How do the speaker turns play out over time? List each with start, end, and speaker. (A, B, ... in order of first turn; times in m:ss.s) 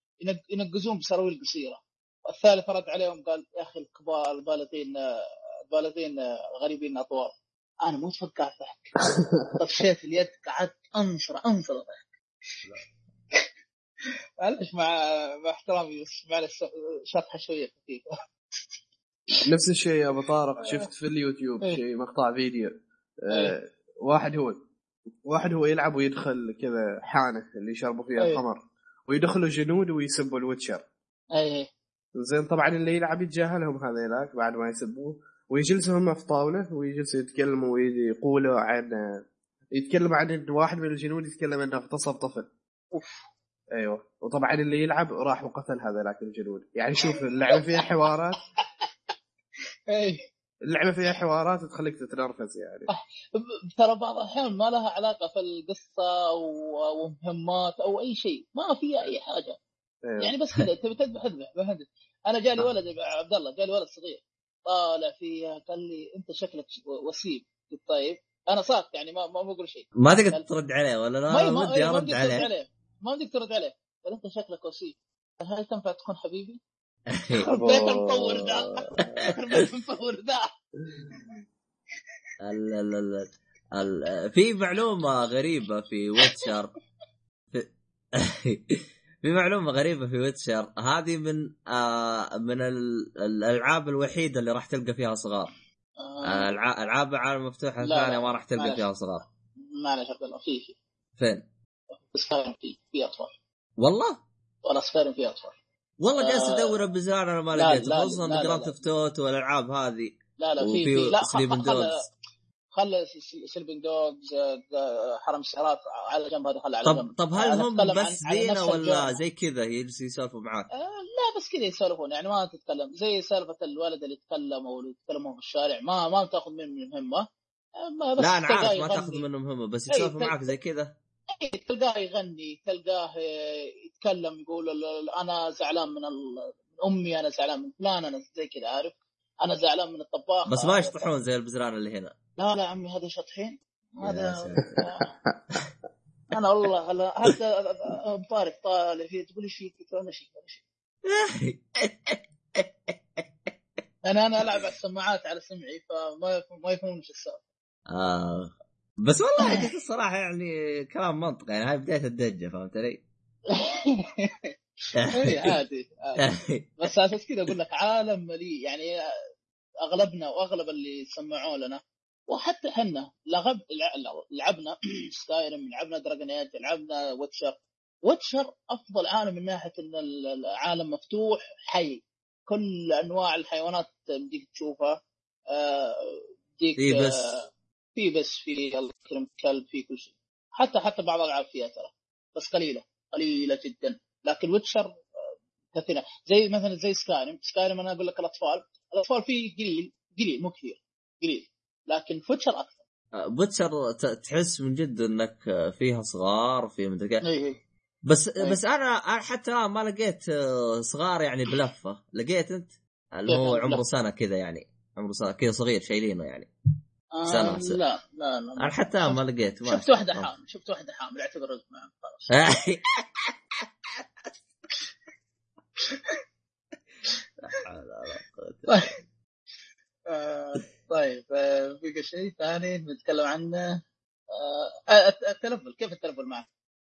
0:00.2-0:05.0 A
0:05.7-0:09.0 A
0:09.1-0:09.5 B
0:09.5-0:12.1 A
0:14.4-0:18.1 A
0:19.5-0:24.6 B
0:25.3-0:30.8 B
0:31.3-0:31.7 A
0:32.2-0:39.2 B
0:39.8-0:42.5 B
0:42.9-0:43.2 A
0:43.7-0:48.4 B
0:47.1-0:47.9 A
0:49.9-0:50.2 A
0:50.6-0:52.9 B
0:52.9-0:59.6 A
1:00.0-1:00.3 B
1:00.2-1:10.4 A
1:10.0-1:12.5 C
1:11.3-1:16.6 A
1:17.1-1:17.4 C
1:17.4-1:20.5 A
1:17.5-1:19.2 B
1:22.4-1:26.7 C
1:28.2-1:35.5 C
1:36.0-1:36.5 A
1:36.2-1:39.2 C
1:37.8-1:38.8 A
1:39.6-1:40.8 A
1:41.2-1:41.4 C
1:42.1-1:43.3 A
1:43.8-1:44.2 C
1:44.6-1:45.6 A
1:46.0-1:52.1 C
1:46.2-1:46.8 A
1:47.6-1:48.7 A
1:50.4-1:52.0 A
1:52.7-1:59.2 A
1:56.8-2:00.7 C
2:00.7-2:07.3 A
2:07.8-2:09.2 A
2:08.2-2:10.9 C
2:09.9-2:10.4 A
2:11.4-2:21.0 A
2:20.5-2:22.1 C
2:22.4-2:25.1 A
2:24.0-2:24.8 C
2:24.8-2:25.3 B
2:26.3-2:30.6 A
2:31.1-2:32.9 C
2:34.0-2:37.4 A
2:37.9-2:43.0 C
2:39.4-2:39.6 A
2:43.5-2:44.5 A
2:45.0-2:45.6 C
2:45.1-2:48.9 A
2:46.2-2:46.9 C
2:49.8-3:05.0 A
3:05.5-3:15.0 A
3:06.8-3:07.4 C
3:15.7-3:22.8 A
3:23.1-3:27.2 C
3:27.2-3:27.6 A
3:28.1-3:36.5 C
3:33.3-3:33.8 A
3:37.2-3:42.5 A
3:37.3-3:37.8 C
3:38.6-3:40.3 C
3:42.3-3:43.3 C
3:45.9-3:46.2 A
3:47.4-3:48.9 C
3:50.1-3:53.8 A
3:54.3-3:56.5 A